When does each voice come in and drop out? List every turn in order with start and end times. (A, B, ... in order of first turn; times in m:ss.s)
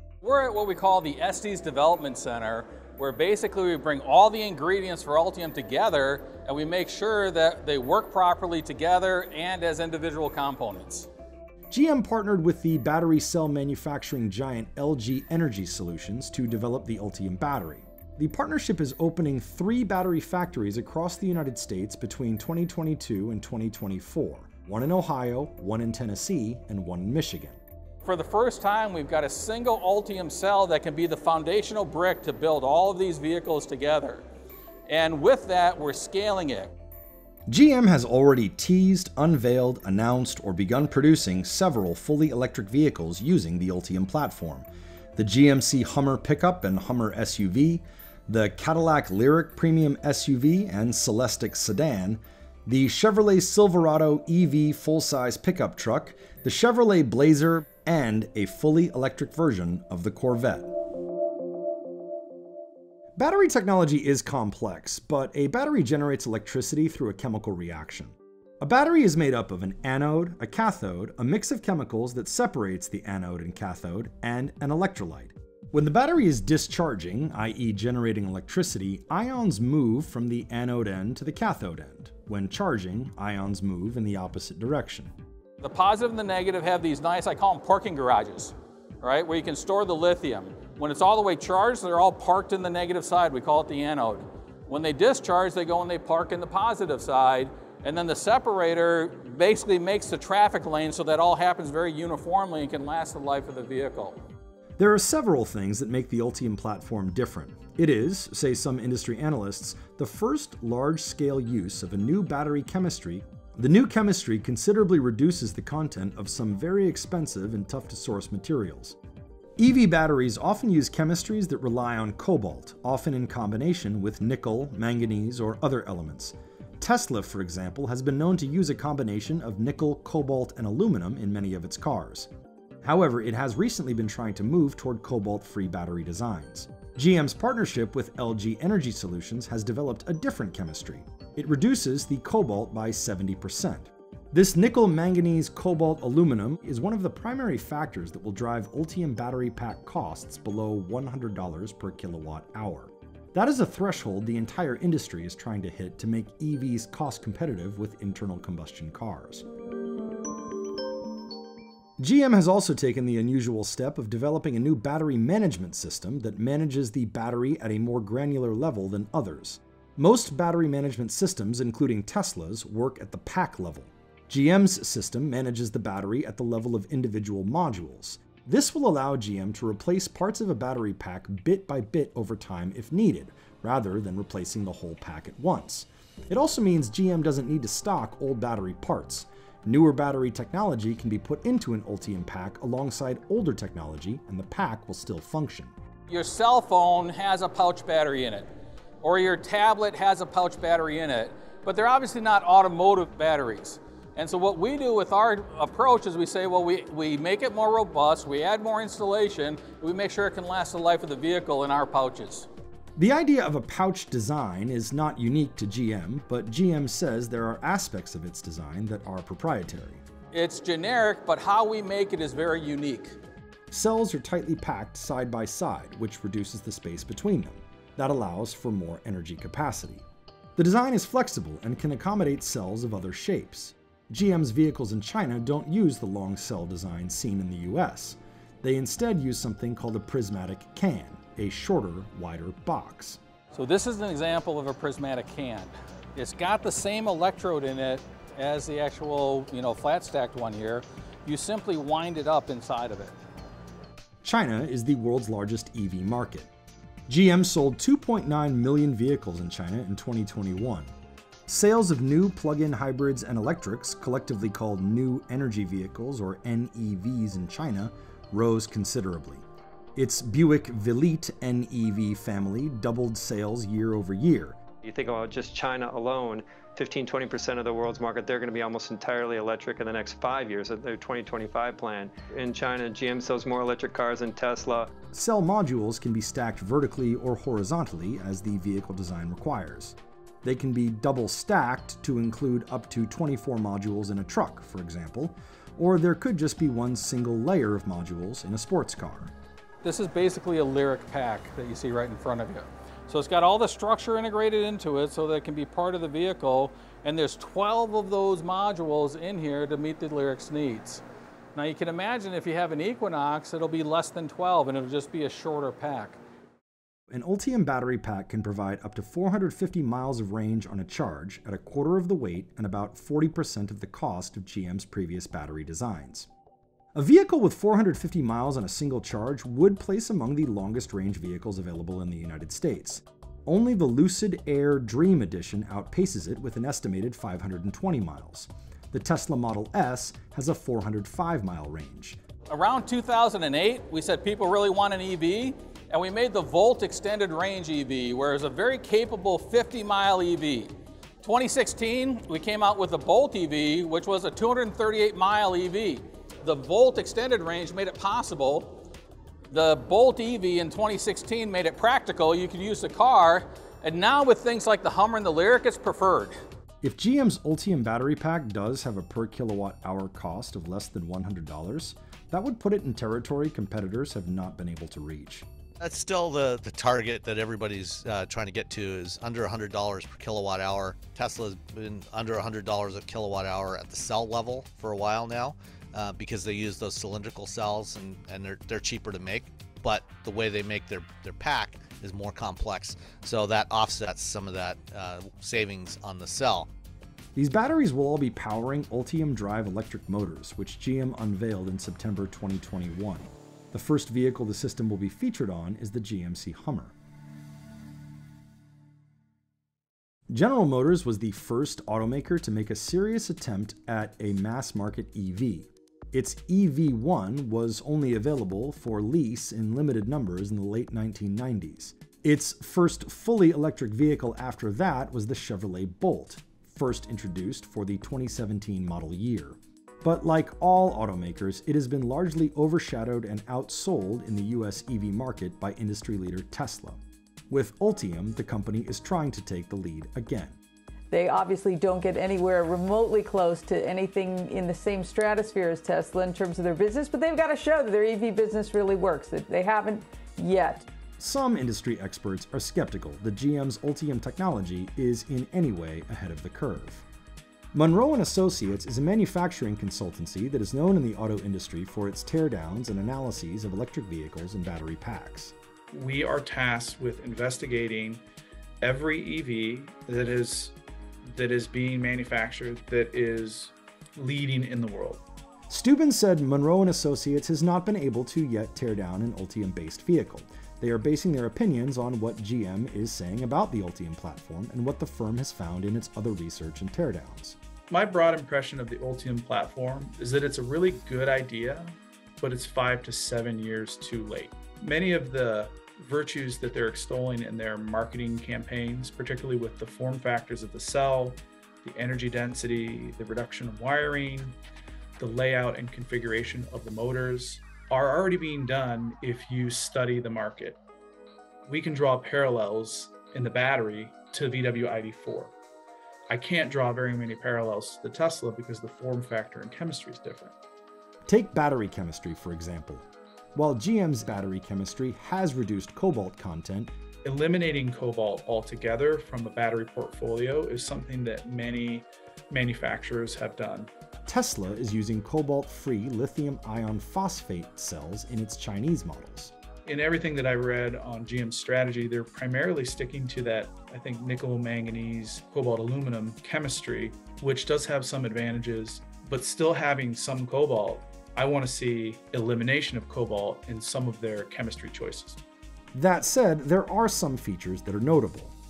0:00.2-0:11.1 A
0:11.7-0:27.6 B
0:28.0-0:34.2 A
0:34.9-0:36.7 A
0:37.5-1:00.8 B
1:03.2-1:25.1 B
1:25.6-1:44.2 A
1:44.8-1:59.0 B
1:59.6-2:12.3 B
2:12.8-2:39.4 B
2:42.0-3:15.7 B
3:16.1-3:18.5 A
3:19.0-3:32.5 A
3:33.0-3:40.0 B
3:40.3-3:43.2 A
3:43.7-4:03.2 B
4:03.5-4:13.1 A
4:14.2-4:16.5 B
4:17.1-4:20.9 B
4:21.5-4:29.4 B
4:30.0-4:34.6 B
4:34.8-4:44.9 C
4:45.1-4:59.3 B
4:59.8-5:11.0 A
5:11.5-5:16.2 A
5:17.1-5:26.3 B
5:26.9-5:42.2 B
5:42.5-5:58.8 A
5:59.5-6:06.3 A
6:06.8-6:15.5 B
6:15.8-6:36.7 D
6:37.3-6:46.9 B
6:50.3-7:17.0 B
7:17.5-7:20.6 B
7:21.1-7:30.8 E
7:31.2-7:37.0 B
7:37.7-7:45.5 B
7:45.9-7:48.2 F
7:48.8-7:50.8 F
7:51.3-7:55.2 F
7:55.7-8:07.6 B
8:07.9-8:24.6 F
8:25.2-8:30.8 F
8:31.6-8:35.5 F
8:36.3-8:40.5 F
8:41.3-8:46.9 B
8:47.2-8:53.9 F
8:54.3-8:59.5 B
8:59.8-9:15.4 F
9:15.9-9:18.5 B